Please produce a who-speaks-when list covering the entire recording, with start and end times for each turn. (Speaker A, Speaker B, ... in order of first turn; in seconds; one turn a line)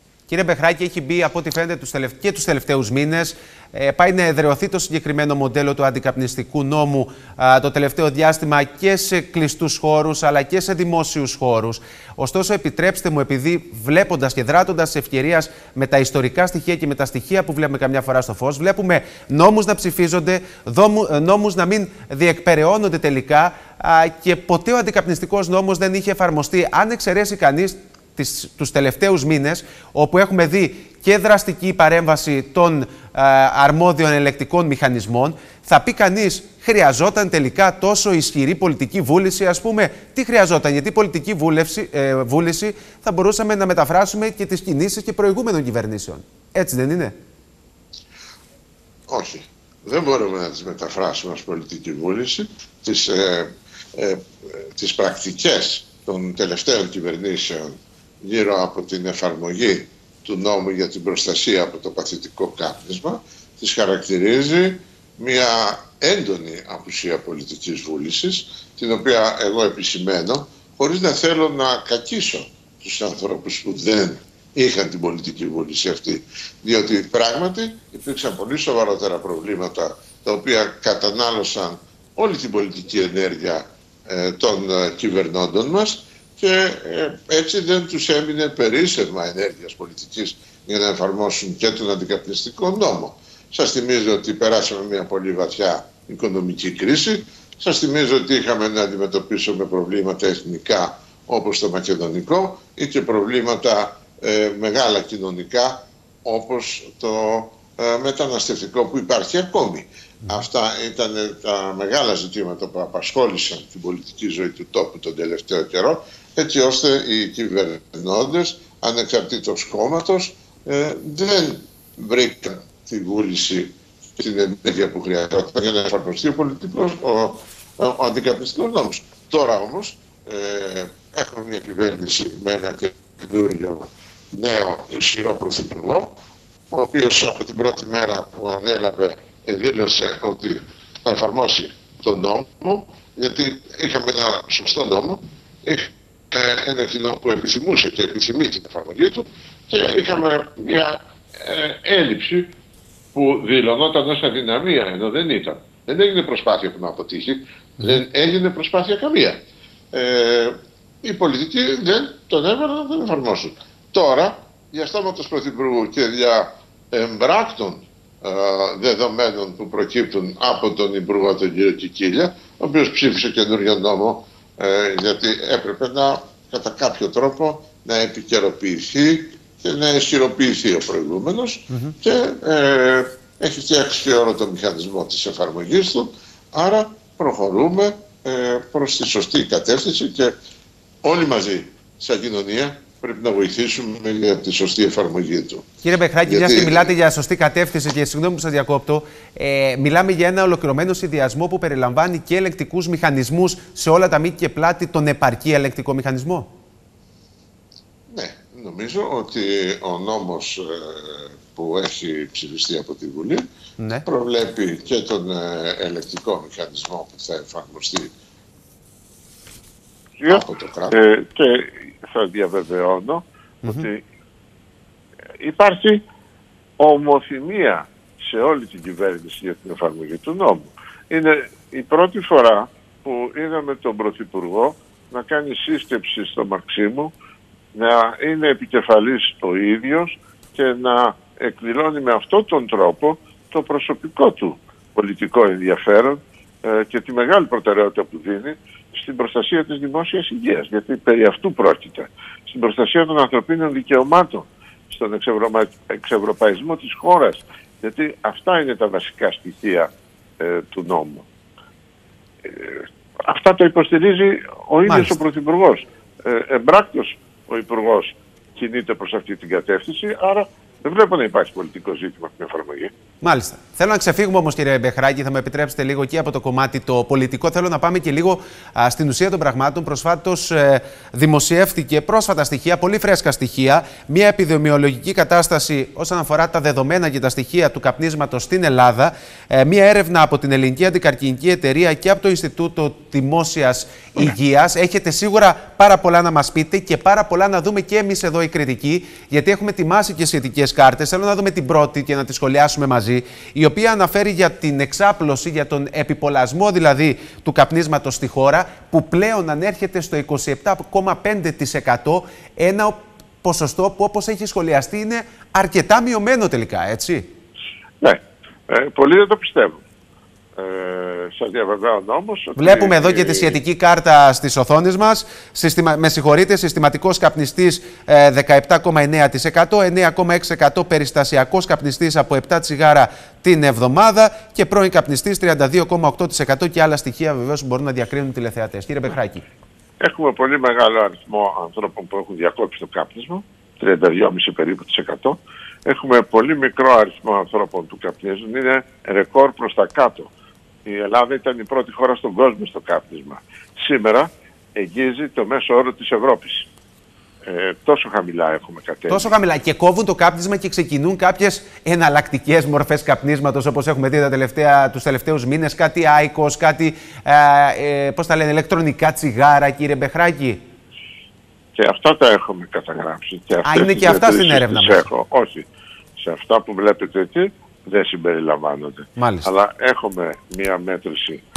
Speaker A: 0.3-47.1
Speaker B: 49.1-136.1
Speaker B: 136.7-152.5
Speaker B: 153.2-153.8
Speaker C: 153.7-156.2
Speaker B: 155.7-159.4
Speaker B: 159.9-190.3
Speaker B: 191.0-195.7
Speaker A: 195.8-206.5
Speaker B: 196.3-196.9
Speaker B: 208.1-213.4
Speaker A: 213.8-214.1
Speaker B: 214.1-218.1
Speaker C: 220.2-223.9
Speaker B: 220.3-221.0
Speaker C: 225.4-226.0
Speaker C: 226.8-234.8
Speaker B: 233.1-233.5
Speaker C: 235.3-237.1
Speaker B: 237.8-238.3
Speaker C: 237.9-240.1
Speaker B: 240.6-241.6
Speaker C: 241.0-243.1
Speaker C: 243.7-244.6
Speaker C: 245.1-248.4
Speaker B: 248.4-249.2
Speaker C: 249.2-252.0
Speaker C: 252.6-254.4
Speaker C: 255.0-257.4
Speaker C: 258.0-259.9
Speaker C: 260.4-261.2
Speaker C: 262.4-272.9
Speaker A: 264.9-265.1
Speaker A: 273.2-317.3
Speaker C: 318.0-319.8
Speaker C: 320.6-323.6
Speaker A: 322.6-339.4
Speaker C: 340.0-350.3
Speaker C: 350.9-356.6
Speaker C: 357.5-359.3
Speaker A: 359.1-370.6
Speaker C: 371.8-375.6
Speaker A: 373.6-375.0
Speaker C: 376.3-381.4
Speaker A: 379.2-379.5